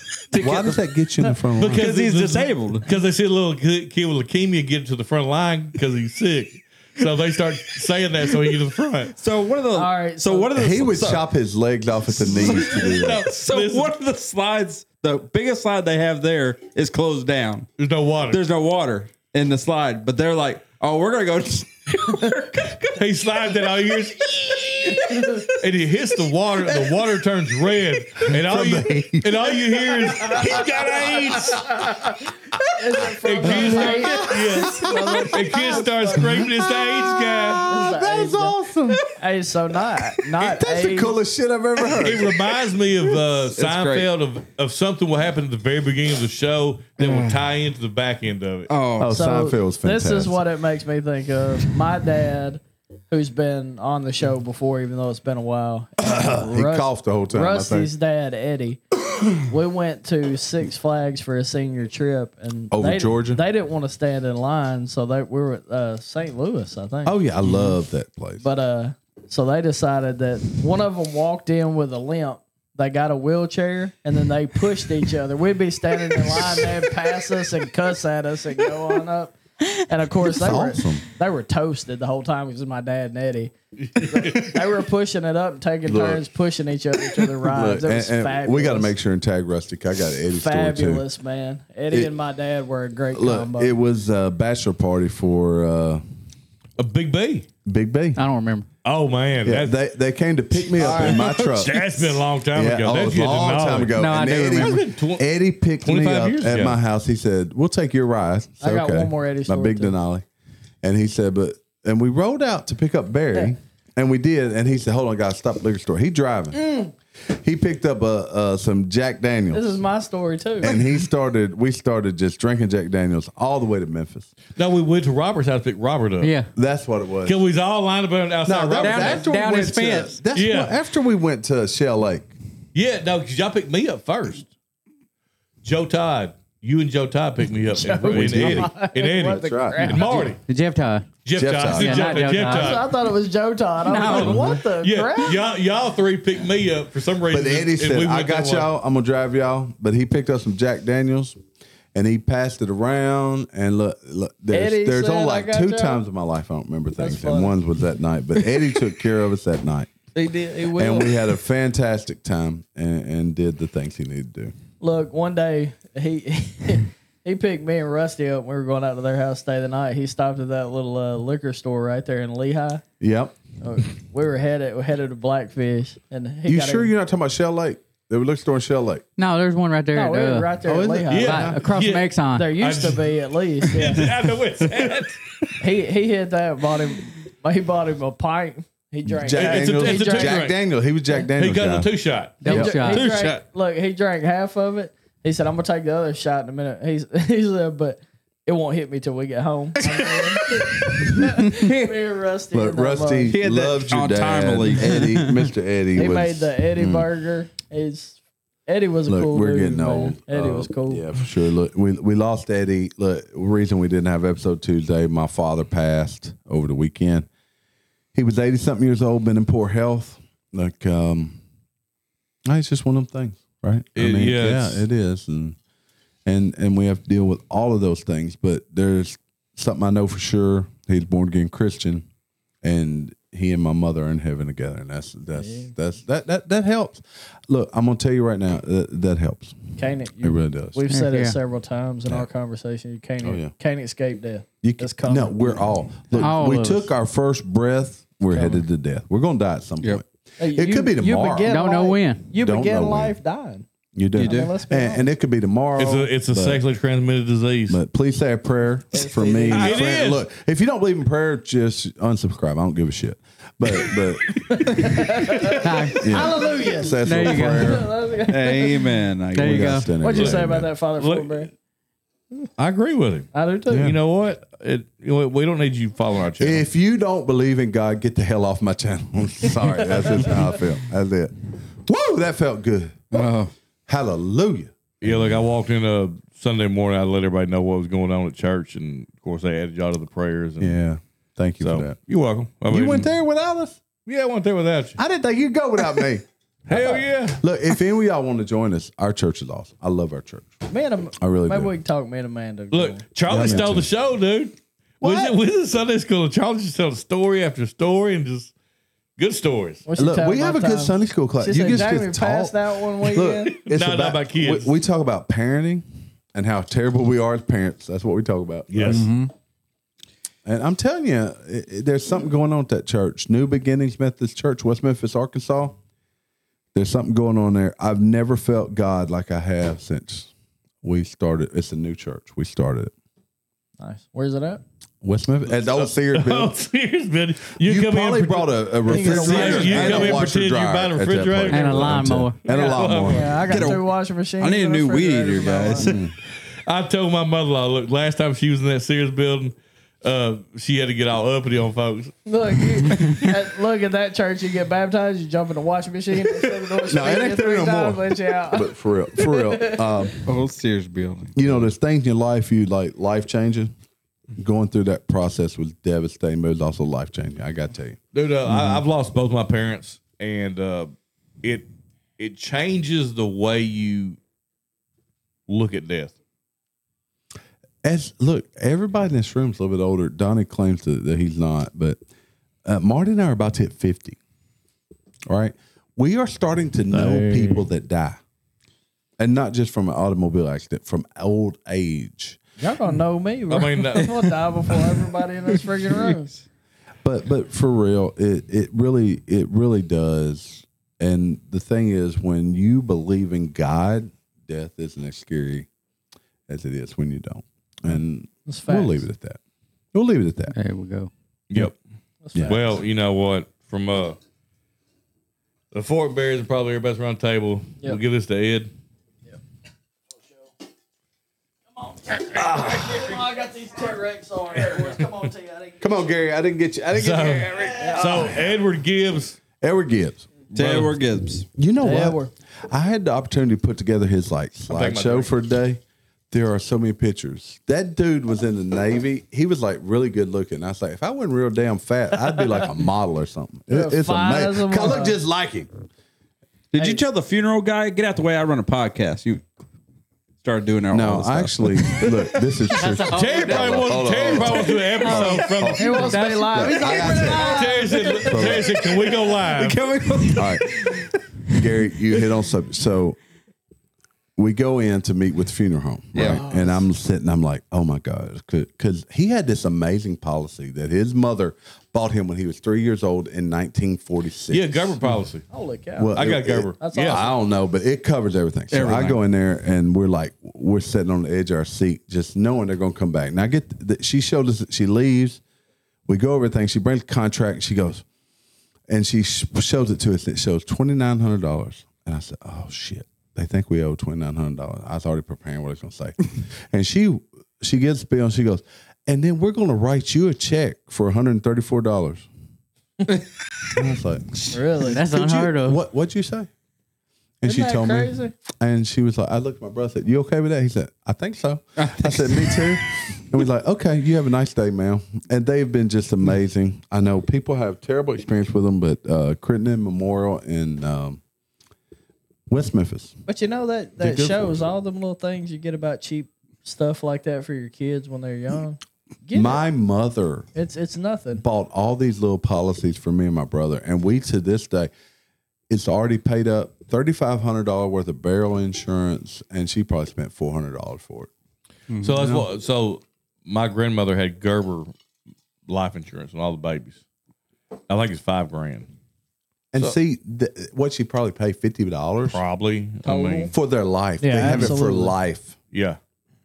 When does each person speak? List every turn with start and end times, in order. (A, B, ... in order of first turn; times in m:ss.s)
0:00.3-0:02.9 A
0:00.4-0:01.9 B
0:01.6-0:09.2 C
0:09.2-0:11.3 A
0:09.7-0:10.5 D
0:10.5-0:13.3 B
0:12.1-0:17.7 A
0:12.4-0:13.9 C
0:17.8-0:18.4 C
0:18.3-0:23.0 A
0:23.0-0:32.0 C
0:25.0-0:25.3 A
0:28.2-0:31.5 B
0:32.7-0:36.4 D
0:33.2-0:37.7 C
0:33.4-0:39.0 B
0:37.5-0:38.6 D
0:39.1-0:41.2 D
0:40.4-0:42.3 B
0:42.0-0:48.7 C
0:43.5-0:44.1 A
0:47.0-0:47.4 A
0:48.7-0:49.2 A
0:49.0-0:50.4 B
0:49.1-0:58.8 D
0:56.0-0:57.9 B
0:59.4-1:07.2 D
1:02.7-1:03.4 B
1:07.0-1:08.5 B
1:07.4-1:07.8 A
1:08.4-1:28.9 D
1:20.2-1:21.0 B
1:23.8-1:24.6 C
1:25.9-1:26.2 B
1:27.4-1:31.0 B
1:30.3-1:33.7 D
1:33.1-1:36.0 B
1:36.8-1:37.5 C
1:37.6-1:38.2 B
1:38.2-1:38.7 E
1:38.8-1:39.8 C
1:39.4-1:50.2 B
1:40.8-1:41.4 D
1:40.9-1:45.2 C
1:43.9-1:44.9 E
1:45.8-1:46.8 C
1:48.6-1:49.9 D
1:50.8-1:56.6 B
1:56.5-1:56.9 D
1:57.3-1:59.7 B
1:59.5-2:00.8 D
2:00.6-2:04.3 B
2:04.6-2:06.3 C
2:06.2-2:06.5 E
2:06.6-2:07.4 B
2:07.3-2:09.3 C
2:08.5-2:12.3 B
2:08.8-2:10.2 E
2:10.3-2:10.7 C
2:12.7-2:14.5 C
2:15.6-2:20.4 C
2:17.8-2:20.3 D
2:18.0-2:18.7 B
2:19.4-2:19.9 B
2:19.8-2:21.1 E
2:21.2-2:22.9 C
2:21.4-2:22.3 B
2:21.7-2:22.8 E
2:22.2-2:25.5 D
2:23.9-2:28.7 C
2:23.9-2:24.5 E
2:27.3-2:31.4 B
2:31.9-2:39.9 B
2:34.5-2:36.0 D
2:37.0-2:37.6 D
2:40.2-2:41.2 D
2:40.7-2:44.5 B
2:44.8-2:52.8 D
2:53.0-2:53.4 B
2:53.6-2:56.9 D
2:56.5-2:59.0 B
2:59.2-3:00.6 E
2:59.9-3:01.5 D
3:00.6-3:01.6 B
3:01.1-3:03.1 C
3:01.2-3:02.6 E
3:02.3-3:04.1 D
3:03.7-3:05.2 C
3:05.6-3:10.4 D
3:09.1-3:11.9 B
3:09.4-3:10.6 C
3:11.4-3:12.4 C
3:12.4-3:13.2 E
3:12.4-3:12.8 B
3:12.5-3:23.4 D
3:12.9-3:13.4 A
3:20.2-3:20.8 A
3:22.5-3:27.1 B
3:23.3-3:25.1 A
3:25.0-3:25.4 E
3:25.9-3:31.1 D
3:29.1-3:37.3 B
3:38.1-3:41.4 B
3:42.4-3:45.6 B
3:44.0-3:44.9 C
3:46.3-3:52.1 B
3:52.6-4:00.8 B
3:55.4-3:55.7 D
3:59.8-4:05.7 D
4:00.9-4:01.4 E
4:03.2-4:03.5 B
4:04.6-4:11.5 B
4:06.2-4:06.9 E
4:10.4-4:13.7 D
4:11.5-4:12.3 E
4:12.3-4:13.2 B
4:13.9-4:16.6 B
4:14.2-4:14.5 A
4:14.2-4:15.1 D
4:15.8-4:17.8 C
4:17.7-4:24.7 B
4:18.9-4:19.8 D
4:19.5-4:20.3 C
4:24.3-4:28.9 D
4:25.5-4:26.2 E
4:26.0-4:27.8 B
4:27.0-4:27.8 E
4:28.3-4:29.9 A
4:29.3-4:29.9 E
4:29.4-4:30.7 B
4:30.0-4:31.5 D
4:30.2-4:31.4 C
4:32.6-4:36.6 C
4:33.3-4:33.9 D
4:33.7-4:34.0 B
4:36.4-4:43.3 B
4:40.0-4:40.4 D
4:43.1-4:43.5 A
4:43.9-4:44.7 B
4:45.0-4:50.8 C
4:50.6-4:52.0 B
4:51.6-4:53.1 C
4:52.7-4:53.8 B
4:54.1-4:55.0 C
4:55.0-5:00.5 B
4:56.7-4:57.4 C
5:00.7-5:03.7 D
5:01.2-5:01.7 B
5:02.7-5:08.5 C
5:03.3-5:03.9 B
5:05.0-5:05.4 B
5:09.2-5:09.8 C
5:09.9-5:13.6 D
5:10.0-5:19.1 B
5:13.7-5:14.7 C
5:18.7-5:19.1 C
5:18.9-5:19.3 A
5:20.4-5:25.8 B
5:26.7-5:30.3 B
5:30.8-5:32.9 B
5:33.8-5:34.6 D
5:35.0-5:36.5 B
5:35.6-5:43.3 C
5:37.6-5:43.8 B
5:38.9-5:40.2 D
5:39.3-5:40.2 A
5:41.5-5:42.4 E
5:43.0-5:45.9 D
5:43.5-5:46.0 A
5:45.8-5:46.1 B
5:46.7-5:52.2 C
5:52.3-6:00.1 D
5:56.9-6:00.1 B
6:00.3-6:01.5 A
6:01.4-6:03.7 B
6:04.4-6:08.8 B
6:08.1-6:10.9 C
6:12.2-6:14.2 C
6:15.5-6:16.1 C
6:17.8-6:22.0 B
6:22.6-6:24.2 B
6:25.3-6:28.2 B
6:26.9-6:27.6 C
6:29.2-6:32.4 B
6:32.6-6:36.4 D
6:33.5-6:34.3 C
6:37.0-6:45.7 B
6:46.5-6:49.4 B
6:48.5-6:49.1 D
6:49.9-6:50.5 B
6:50.5-6:51.1 E
6:52.2-6:52.8 D
6:52.3-6:52.6 B
6:52.4-6:54.2 C
6:55.7-6:58.7 C
7:02.1-7:05.8 D
7:02.3-7:03.1 B
7:05.8-7:08.4 B
7:06.9-7:09.4 C
7:07.7-7:08.4 D
7:09.6-7:10.3 B
7:10.5-7:11.0 C
7:10.5-7:11.5 A
7:11.6-7:12.2 B
7:11.8-7:12.3 D
7:12.7-7:25.7 B
7:14.7-7:15.3 C
7:23.7-7:25.2 D
7:26.7-7:29.4 A
7:26.8-7:27.0 D
7:30.4-7:32.5 A
7:30.9-7:38.8 B
7:32.7-7:37.4 E
7:33.1-7:36.1 C
7:35.8-7:38.5 D
7:37.4-7:39.8 C
7:38.8-7:41.2 A
7:40.3-7:40.6 B
7:41.5-7:43.2 B
7:44.4-7:55.1 B
7:46.1-7:46.7 A
7:54.5-7:55.5 C
7:55.5-7:56.2 D
7:56.0-8:05.4 B
7:56.2-7:57.2 C
7:56.8-7:57.4 D
7:58.7-7:59.2 A
8:06.1-8:08.0 B
8:08.9-8:22.3 B
8:23.7-8:24.4 B
8:24.5-8:25.0 D
8:24.8-8:25.8 E
8:25.0-8:26.5 B
8:27.4-8:41.2 B
8:27.4-8:28.3 D
8:31.8-8:32.8 A
8:42.5-8:43.2 B
8:43.3-8:49.6 D
8:44.0-8:44.5 B
8:49.3-8:50.5 B
8:50.6-8:51.4 D
8:51.4-8:54.9 B
8:55.7-9:01.3 B
9:02.0-9:04.9 C
9:02.0-9:02.5 B
9:05.7-9:07.0 C
9:07.9-9:08.9 C
9:09.7-9:12.4 B
9:12.3-9:13.5 C
9:13.0-9:13.5 D
9:13.5-9:15.6 B
9:14.2-9:15.2 D
9:15.7-9:16.0 C